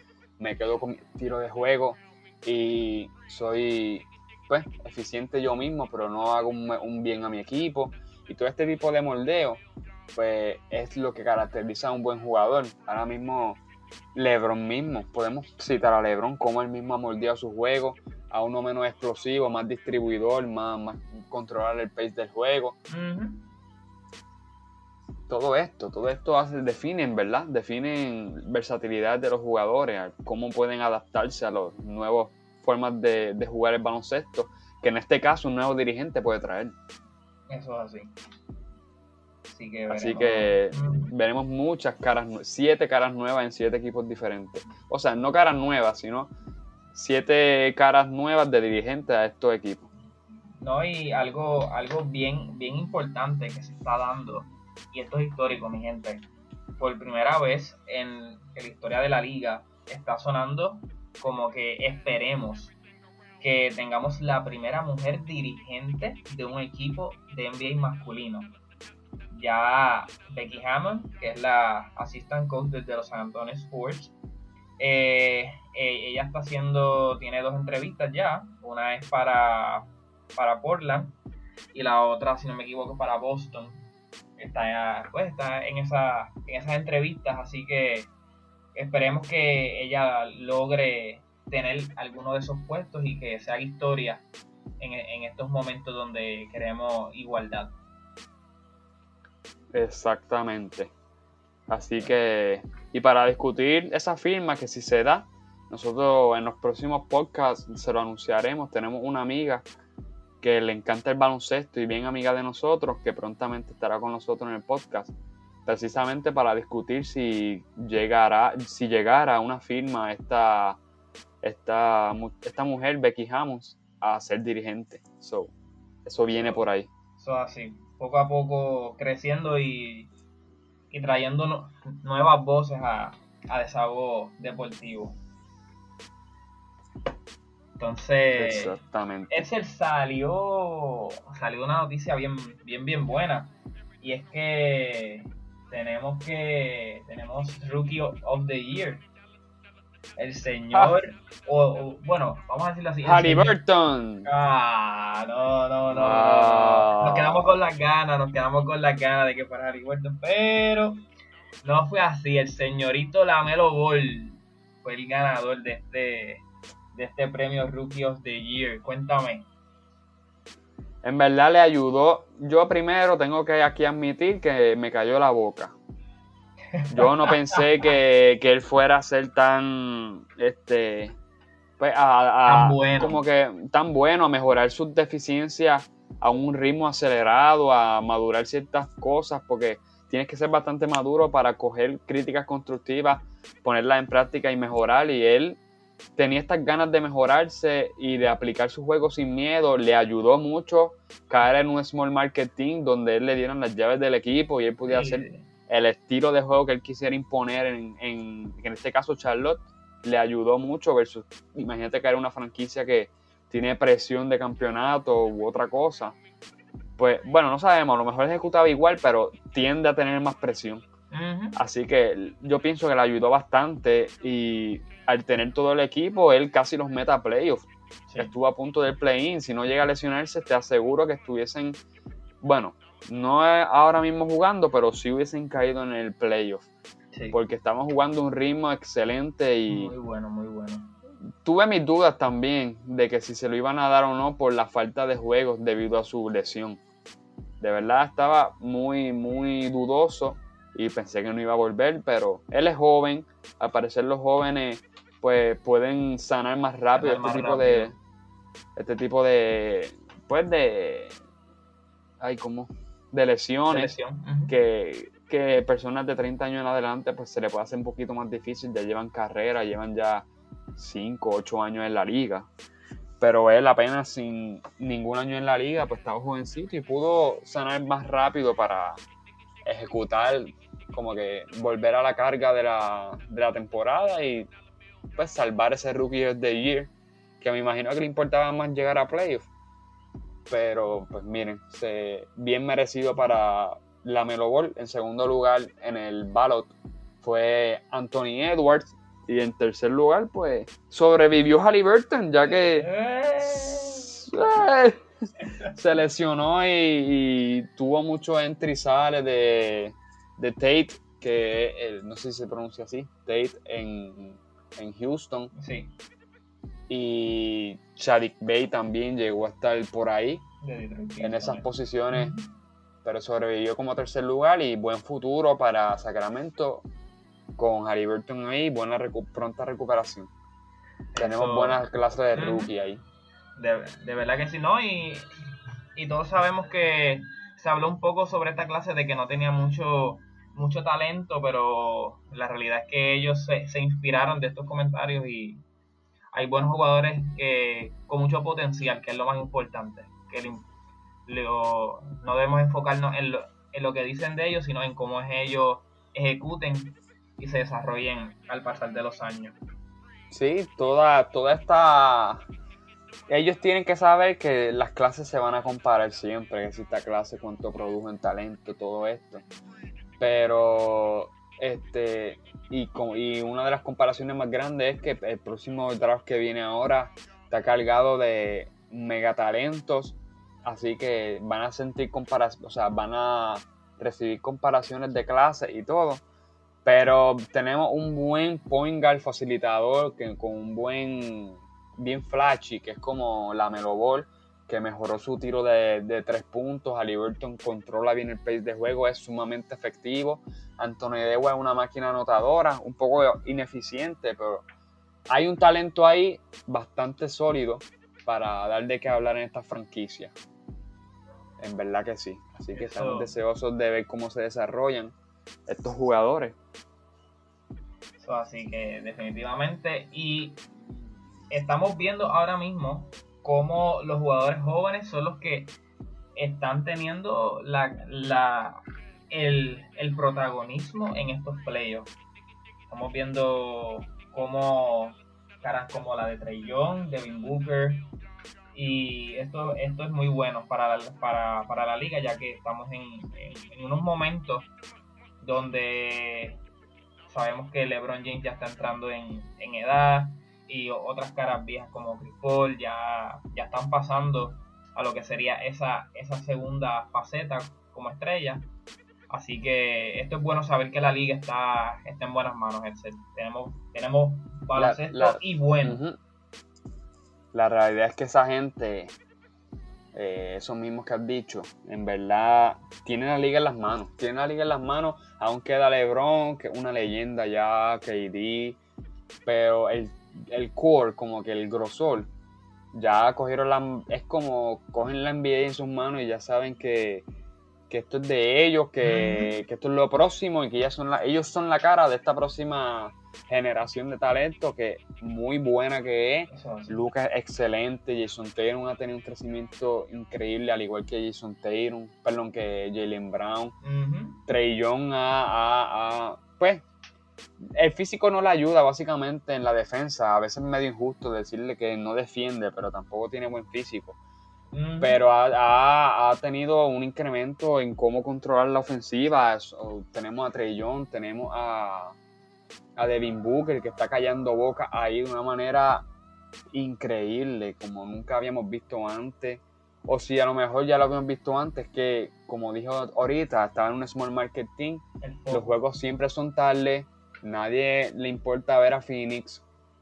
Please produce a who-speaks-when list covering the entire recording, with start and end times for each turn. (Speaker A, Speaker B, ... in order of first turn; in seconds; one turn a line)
Speaker A: 0.4-9.6
Speaker A: 10.1-13.6
Speaker A: 14.2-22.8
Speaker B: 22.9-23.5
Speaker A: 25.3-36.8
Speaker B: 37.5-38.1
Speaker B: 39.5-41.1
Speaker A: 39.9-46.3
Speaker A: 46.9-49.9
Speaker B: 50.6-62.8
Speaker B: 63.4-68.6
Speaker B: 69.3-74.1
Speaker B: 74.8-81.2
Speaker B: 81.7-83.8
Speaker B: 84.4-88.1
Speaker B: 88.7-94.2
Speaker B: 94.8-97.8
Speaker A: 99.7-100.9
Speaker A: 101.7-109.7
Speaker A: 110.4-115.1
Speaker A: 115.7-120.8
Speaker A: 121.4-125.5
Speaker A: 126.0-126.9
Speaker B: 126.3-126.6
Speaker B: 127.2-130.1
Speaker B: 130.9-135.2
Speaker B: 137.8-138.8
Speaker A: 138.3-139.3
Speaker B: 139.3-149.1
Speaker B: 150.2-153.6
Speaker A: 153.1-154.3
Speaker B: 154.2-161.0
Speaker A: 155.9-157.5
Speaker B: 161.6-169.5
Speaker A: 171.0-175.8
Speaker B: 176.7-177.6
Speaker A: 176.9-181.2
Speaker A: 181.8-195.6
Speaker B: 182.5-183.2
Speaker A: 196.2-216.2
Speaker B: 204.8-205.4
Speaker A: 217.0-220.8
Speaker B: 221.1-221.6
Speaker A: 221.6-227.7
Speaker A: 228.2-231.8
Speaker A: 232.4-236.7
Speaker B: 237.1-237.4
Speaker A: 237.3-239.9
Speaker B: 239.7-240.9
Speaker A: 241.4-246.8
Speaker A: 247.6-258.0
Speaker B: 256.9-257.9
Speaker A: 258.8-261.2
Speaker A: 262.2-264.0
Speaker B: 263.7-264.6
Speaker A: 264.5-272.5
Speaker A: 273.2-279.0
Speaker A: 279.6-284.5
Speaker A: 285.2-289.5
Speaker A: 290.5-302.9
Speaker B: 302.4-304.3
Speaker A: 304.1-305.0
Speaker A: 305.7-315.5
Speaker B: 315.5-315.9
Speaker A: 316.9-320.4
Speaker B: 320.6-322.4
Speaker A: 321.2-322.3
Speaker A: 323.0-326.9
Speaker A: 327.6-330.3
Speaker B: 331.1-332.7
Speaker A: 331.2-333.0
Speaker B: 333.6-335.3
Speaker B: 336.0-345.6
Speaker B: 346.3-350.7
Speaker B: 351.3-359.6
Speaker A: 360.3-362.4
Speaker A: 363.3-369.4
Speaker A: 370.2-386.2
Speaker A: 386.9-404.6
Speaker A: 405.3-410.3
Speaker A: 411.6-415.1
Speaker B: 412.7-413.4
Speaker A: 415.7-416.6
Speaker B: 418.2-420.6
Speaker B: 421.5-425.8
Speaker B: 426.4-432.1
Speaker B: 432.9-438.1
Speaker B: 438.7-444.7
Speaker B: 445.4-446.6
Speaker B: 447.3-458.7
Speaker B: 459.3-466.0
Speaker A: 464.8-466.2
Speaker A: 467.5-469.1
Speaker A: 470.1-478.8
Speaker A: 479.5-482.3
Speaker A: 482.9-487.3
Speaker A: 487.9-503.8
Speaker B: 489.0-489.5
Speaker B: 496.5-497.0
Speaker B: 503.8-504.4
Speaker A: 504.5-506.9
Speaker A: 507.6-514.2
Speaker B: 514.7-515.2
Speaker A: 515.0-522.2
Speaker A: 523.0-526.1
Speaker A: 526.7-539.6
Speaker B: 535.2-535.8